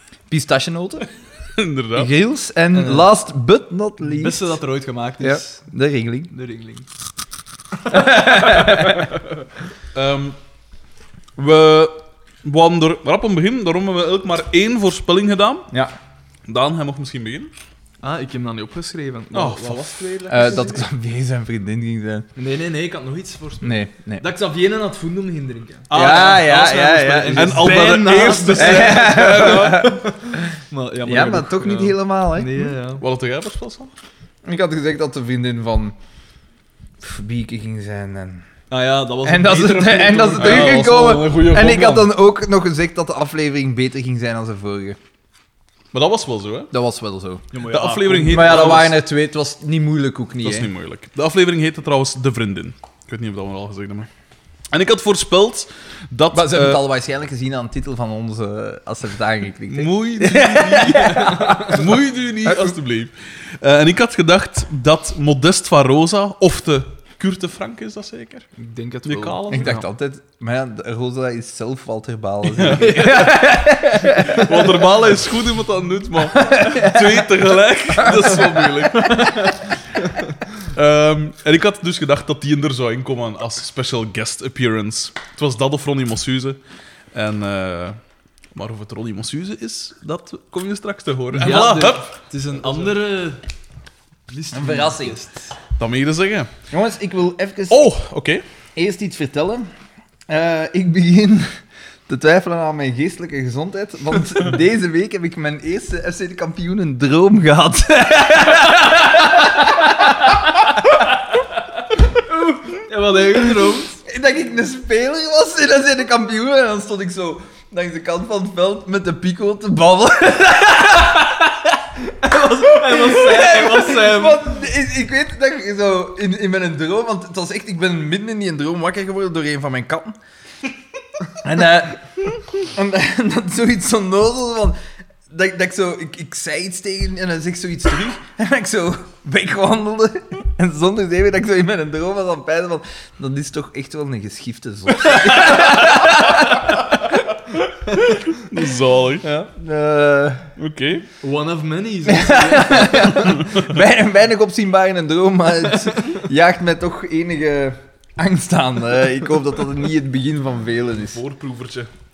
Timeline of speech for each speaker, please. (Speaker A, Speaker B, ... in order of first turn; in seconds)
Speaker A: 0.3-1.1, 1.9-4.6, 5.2-6.3, 7.8-9.1, 15.7-16.0, 20.3-22.3, 23.6-24.3, 25.9-27.7, 28.6-30.5, 31.0-32.7, 34.5-36.0, 37.0-38.5, 39.2-45.0, 46.7-47.4, 48.3-50.7, 56.3-61.9, 62.5-62.8, 69.5-74.8, 76.3-77.2, 78.0-79.4, 94.5-95.3, 96.7-97.8, 98.8-99.7, 100.3-111.0, 114.0-121.7, 122.3-130.2, 131.4-134.8, 135.3-147.2, 149.2-150.5, 152.1-161.2
Speaker B: 1.6-2.1, 9.9-10.4, 11.4-15.7, 16.5-17.5, 19.3-20.1, 25.9-30.0, 33.0-33.9, 40.4-42.1, 45.9-46.7, 47.6-49.0, 50.4-54.1, 54.7-56.8, 59.7-68.5, 69.0-69.8, 72.5-73.3, 74.2-79.5, 80.6-86.6, 87.1-88.0, 88.5-92.9, 95.8-96.5, 97.7-98.4, 148.0-149.2, 150.6-151.1, 153.4-153.7, 160.9-161.9
Speaker C: 2.7-3.1, 4.0-5.6, 6.3-6.9, 8.0-9.0, 18.0-20.9, 22.4-25.9, 27.2-33.0, 38.7-40.9, 47.5-48.9, 60.7-61.9, 68.6-69.8, 72.7-73.6, 79.2-80.4, 91.4-93.4, 94.3-95.4, 112.1-114.0, 122.1-124.5, 151.2-153.3